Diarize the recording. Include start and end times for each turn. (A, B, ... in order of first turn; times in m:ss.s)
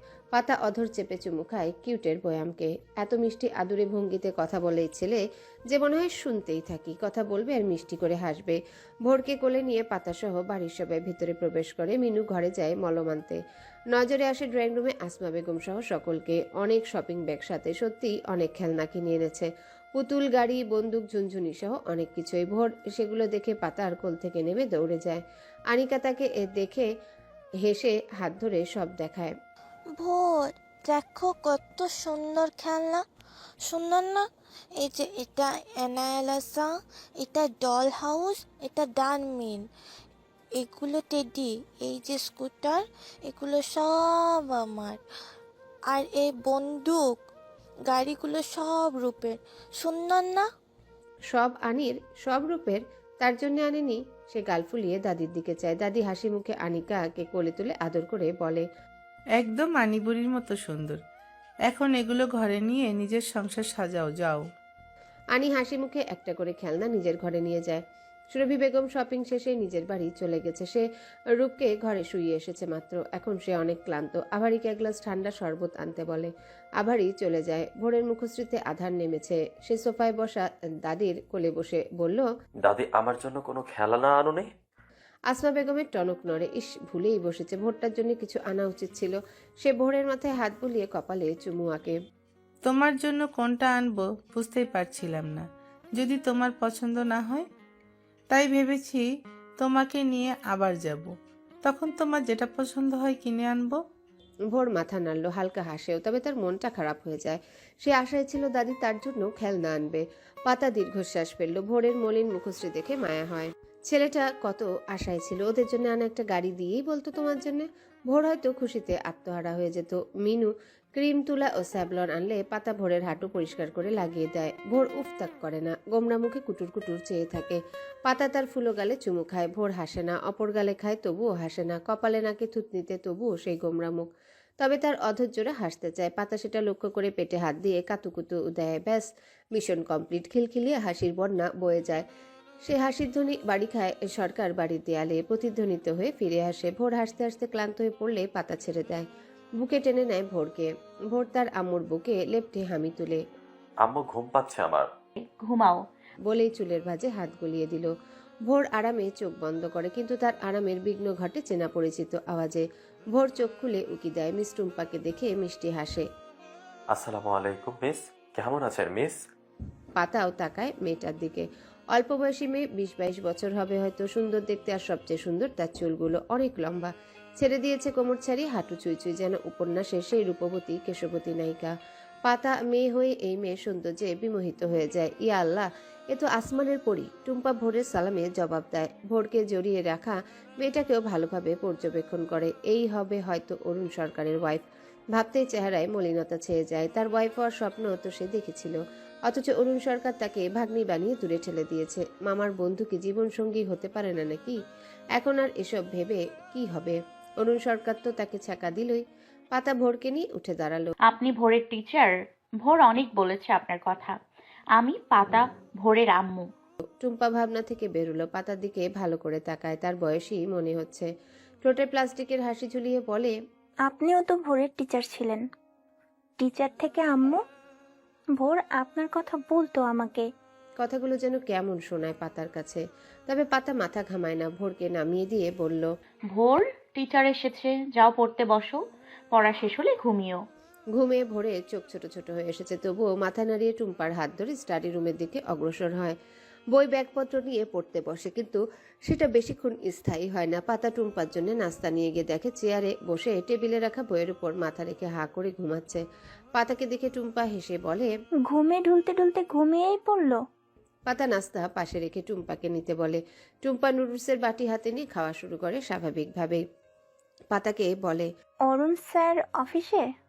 0:00.3-0:13.4 A
0:13.9-0:26.9 A
0:27.6-0:29.3 A
0:30.0-0:33.0 B
0:33.6-0:34.2 B
0:34.8-0:36.7 B
0:37.2-0:39.6 B
0:40.6-0:45.0 B
0:45.9-0:47.2 B
0:47.9-0:50.4 B
0:51.3-0:58.6 A
0:59.4-1:01.0 C
1:01.7-1:04.4 C
1:05.3-1:07.8 A
1:08.3-1:22.3 A
1:22.6-1:24.5 D
1:25.3-1:32.0 A
1:32.6-1:37.4 C
1:38.3-1:39.0 C
1:39.6-1:43.8 C
1:44.5-2:14.0 A
2:14.6-2:22.0 A
2:22.6-2:29.1 A
2:29.6-2:33.2 A
2:33.8-2:34.9 D
2:35.2-2:35.8 E
2:36.3-2:37.9 A
2:38.5-2:46.0 A
2:46.9-2:49.2 D
2:50.0-3:01.7 A
3:02.2-3:24.6 A
3:25.2-3:29.0 A
3:29.5-3:30.9 A
3:31.0-3:34.2 E
3:34.8-3:36.4 E
3:37.0-3:41.1 A
3:41.6-3:43.3 A
3:43.9-3:45.4 F
3:46.5-3:47.3 F
3:48.5-3:50.2 F
3:50.8-3:55.9 A
3:56.3-3:58.8 E
3:59.3-4:00.4 E
4:00.9-4:06.2 A
4:06.7-4:16.0 A
4:16.6-4:18.1 A
4:18.5-4:20.4 F
4:21.1-4:26.6 A
4:27.5-4:28.3 A
4:28.7-4:30.0 F